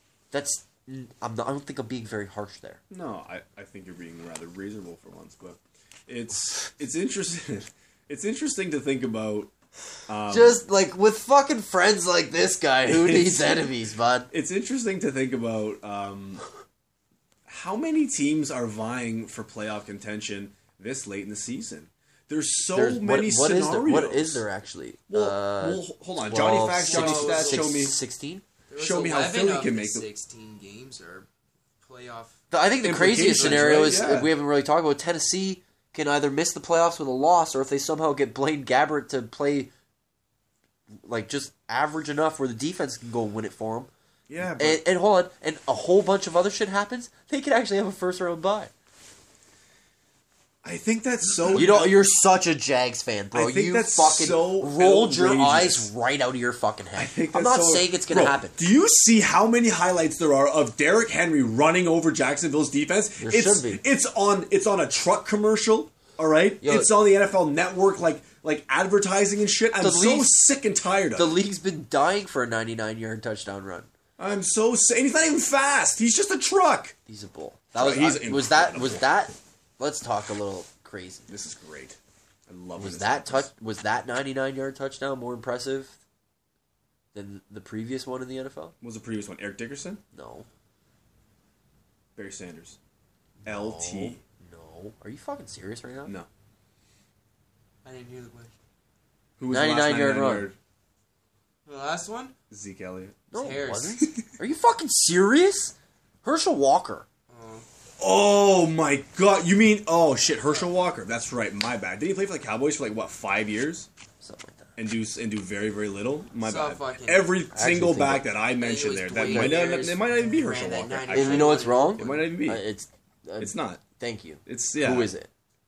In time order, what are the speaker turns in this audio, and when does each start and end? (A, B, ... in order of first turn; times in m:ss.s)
0:00.3-0:02.8 A
0:02.9-0:09.5 B
0:10.1-0:10.6 B
0:10.3-0:14.3 A
0:12.8-0:13.7 B
0:14.3-0:16.4 B
0:17.5-0:24.4 B
0:22.7-0:28.4 A
0:25.1-0:28.0 B
0:26.8-0:27.8 C
0:28.7-0:31.3 C
0:28.8-0:30.1 B
0:31.8-0:32.4 C
0:32.5-0:39.7 A
0:32.8-0:34.3 B
0:33.3-0:33.8 C
0:41.0-0:43.9 A
0:44.3-0:44.8 B
0:44.6-0:48.7 A
0:50.6-0:52.0 B
0:51.5-0:58.6 A
0:53.3-0:55.9 B
0:57.0-1:11.4 B
1:03.2-1:03.8 A
1:06.6-1:06.9 A
1:09.8-1:10.3 A
1:11.2-1:13.9 A
1:14.2-1:17.0 B
1:17.1-1:21.3 A
1:17.8-1:19.1 B
1:21.3-1:23.5 B
1:22.8-1:26.0 A
1:27.1-1:28.8 A
1:28.8-1:30.0 B
1:30.1-1:30.5 A
1:32.2-1:32.8 B
1:33.4-1:34.2 B
1:33.4-1:36.1 A
1:37.8-1:38.5 C
1:39.4-1:40.6 B
1:39.5-1:40.5 A
1:41.7-1:42.4 C
1:42.5-1:43.2 B
1:43.3-1:44.1 C
1:43.3-1:47.1 A
1:47.3-1:47.7 C
1:48.0-1:53.9 B
1:54.2-1:54.8 A
1:54.8-2:02.6 B
1:56.4-1:57.4 C
1:57.5-1:58.3 A
1:58.6-2:02.3 C
1:59.2-1:59.7 A
2:01.1-2:05.3 A
2:03.4-2:03.8 B
2:04.5-2:05.1 B